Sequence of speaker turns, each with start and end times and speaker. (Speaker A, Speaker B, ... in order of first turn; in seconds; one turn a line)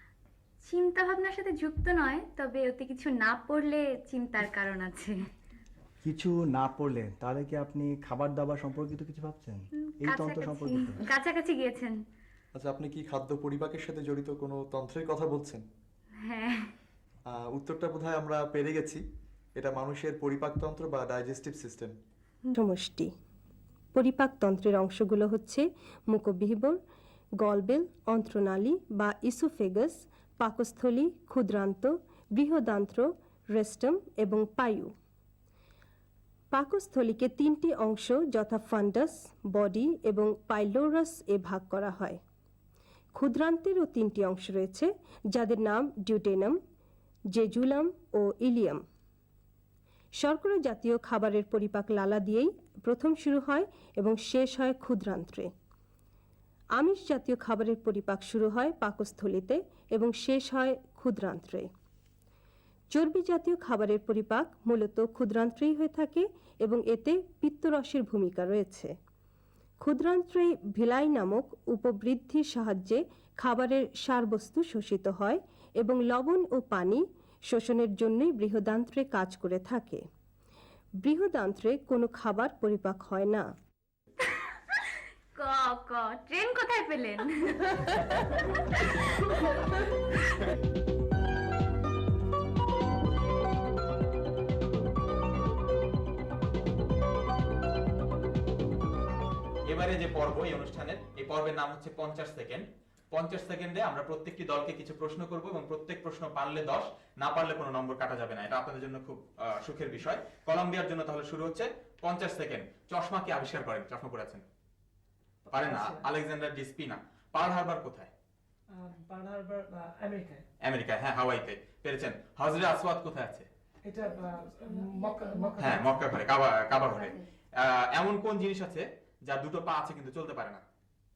Speaker A: 0.7-5.2
Speaker B: 6.0-11.0
Speaker A: 10.0-11.9
Speaker C: 12.6-15.6
Speaker A: 16.2-16.7
Speaker C: 17.3-19.0
Speaker C: 19.6-21.9
Speaker D: 22.6-23.1
Speaker D: 23.9-26.8
Speaker D: 27.4-34.9
Speaker D: 36.5-42.2
Speaker D: 43.1-46.6
Speaker D: 47.3-48.8
Speaker D: 50.2-55.5
Speaker D: 56.8-61.7
Speaker D: 62.9-68.9
Speaker D: 69.8-80.0
Speaker D: 81.0-83.5
Speaker A: 85.4-88.0
Speaker E: 99.7-114.4
Speaker F: 115.5-116.1
Speaker E: 115.5-118.1
Speaker F: 118.8-120.4
Speaker E: 120.6-123.5
Speaker F: 123.8-126.0
Speaker E: 125.6-130.6
Speaker A: 126.8-127.1